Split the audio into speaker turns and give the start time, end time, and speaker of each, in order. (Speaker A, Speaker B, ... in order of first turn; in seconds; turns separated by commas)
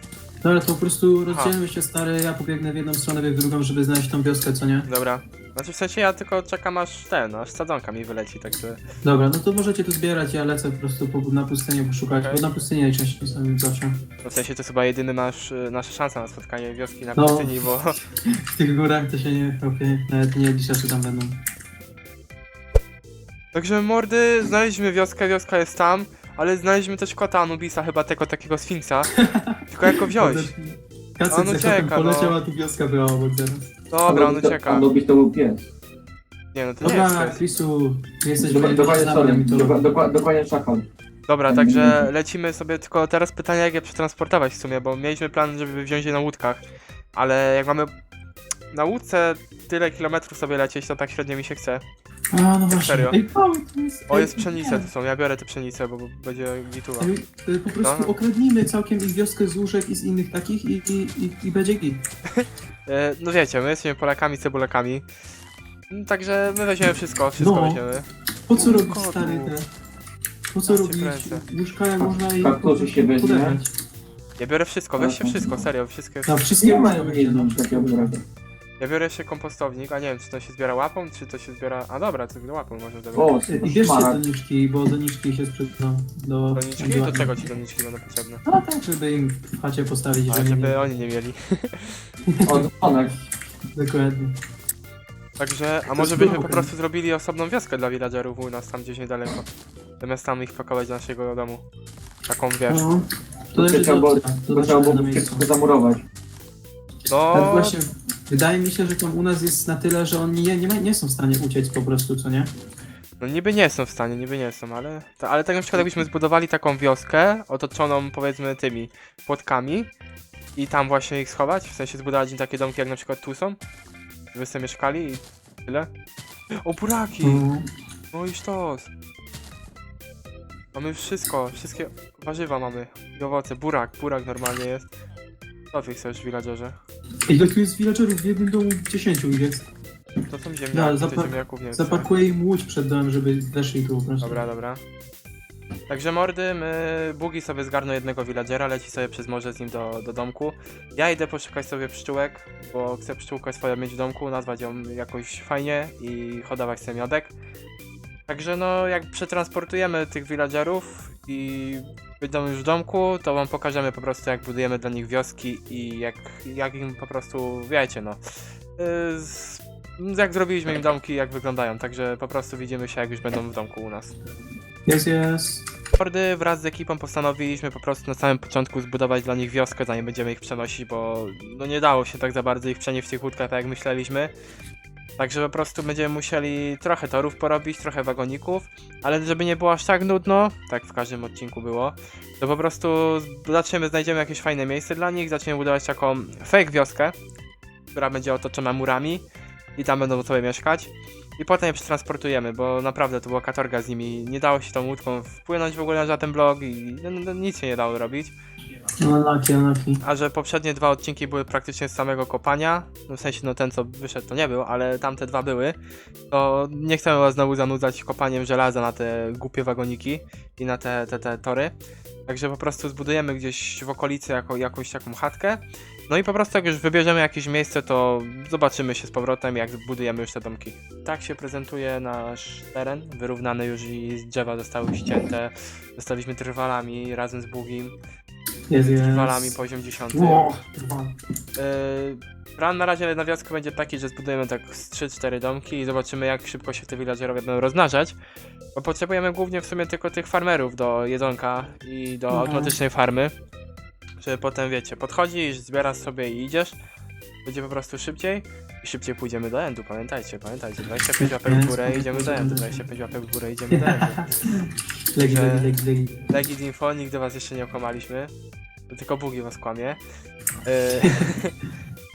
Speaker A: 0.4-4.9, Speaker B: 1.3-1.5, Speaker B: 4.9-8.8, Speaker A: 9.0-14.0, Speaker B: 12.2-12.5, Speaker B: 14.2-18.0, Speaker A: 17.1-18.0, Speaker A: 18.5-21.4, Speaker B: 23.5-29.1, Speaker A: 29.2-33.7, Speaker B: 29.7-30.5, Speaker B: 31.3-32.4, Speaker B: 33.9-34.9, Speaker C: 34.1-35.7, Speaker B: 36.5-37.4, Speaker A: 36.8-39.8, Speaker C: 38.4-40.9, Speaker B: 41.3-47.9, Speaker C: 41.5-42.0, Speaker B: 48.7-51.8, Speaker A: 52.3-54.9, Speaker B: 52.7-53.2, Speaker B: 54.1-57.1, Speaker A: 57.0-62.0, Speaker B: 57.8-58.1, Speaker B: 62.4-65.1, Speaker B: 65.9-69.5, Speaker A: 67.4-67.8, Speaker A: 68.5-69.7, Speaker A: 70.5-73.7, Speaker B: 70.7-71.5, Speaker C: 72.0-73.6, Speaker B: 74.4-76.5, Speaker C: 75.0-75.4, Speaker A: 76.2-78.1, Speaker C: 76.6-78.2, Speaker B: 78.8-83.3, Speaker C: 83.1-84.2, Speaker A: 83.5-87.5, Speaker B: 86.5-88.4, Speaker A: 88.5-90.8, Speaker B: 90.3-92.0, Speaker A: 92.3-92.7, Speaker C: 92.4-93.2, Speaker A: 93.8-94.3, Speaker B: 95.4-99.5, Speaker A: 95.9-96.7, Speaker B: 100.0-101.7, Speaker B: 102.3-103.0, Speaker A: 102.7-105.5, Speaker C: 103.5-106.0, Speaker B: 107.1-107.8, Speaker A: 107.3-112.5, Speaker B: 113.2-119.9, Speaker B: 120.6-123.6, Speaker B: 124.3-125.9, Speaker B: 126.6-127.5, Speaker A: 127.2-127.6, Speaker B: 128.1-128.9, Speaker B: 130.7-134.9, Speaker B: 135.7-136.8, Speaker A: 137.3-139.7, Speaker B: 140.3-142.1, Speaker A: 140.7-144.4, Speaker B: 144.2-144.8, Speaker B: 145.9-157.3, Speaker B: 158.3-168.2, Speaker B: 168.8-174.1, Speaker A: 174.9-175.7, Speaker B: 175.9-184.3, Speaker B: 185.2-197.2, Speaker B: 197.9-208.3, Speaker A: 209.0-210.0, Speaker B: 210.0-215.8, Speaker B: 216.3-221.8, Speaker B: 222.3-238.0, Speaker A: 238.7-239.6, Speaker B: 238.8-240.5, Speaker A: 240.1-241.1, Speaker B: 241.6-248.2, Speaker B: 248.8-253.3, Speaker A: 252.3-252.8, Speaker B: 254.2-256.8, Speaker B: 257.4-264.2, Speaker A: 261.2-262.8, Speaker A: 263.7-264.3, Speaker A: 265.1-266.3, Speaker B: 265.2-265.7, Speaker B: 266.3-268.3, Speaker B: 268.9-270.0, Speaker B: 270.6-271.6